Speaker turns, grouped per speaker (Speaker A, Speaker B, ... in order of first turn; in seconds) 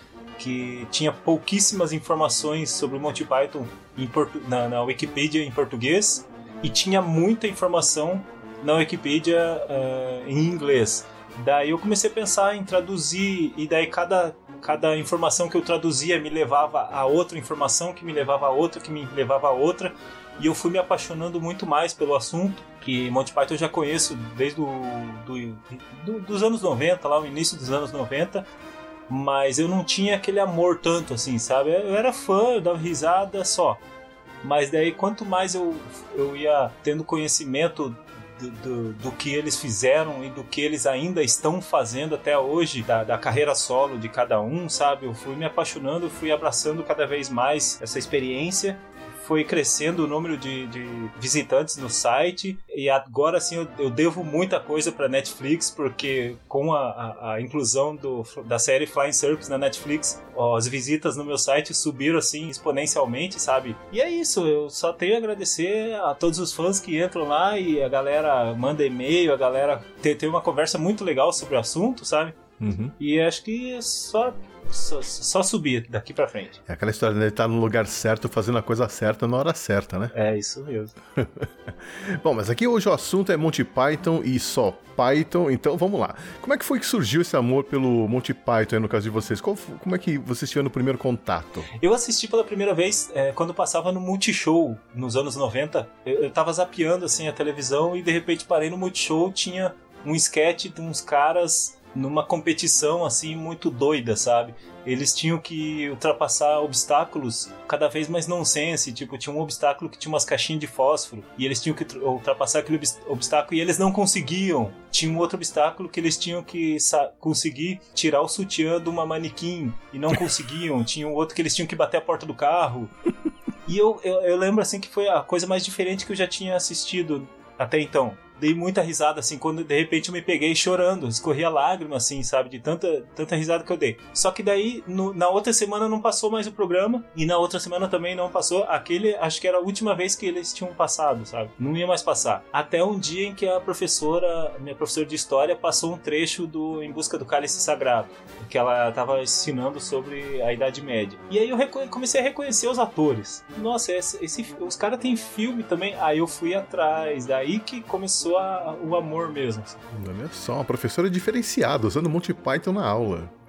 Speaker A: 0.4-28.4, 29.1-33.8, 34.4-72.4, 73.0-76.6, 80.1-80.9, 91.8-122.9, 123.7-159.8
Speaker B: 72.6-72.9, 76.7-80.1, 81.2-91.7, 159.9-163.3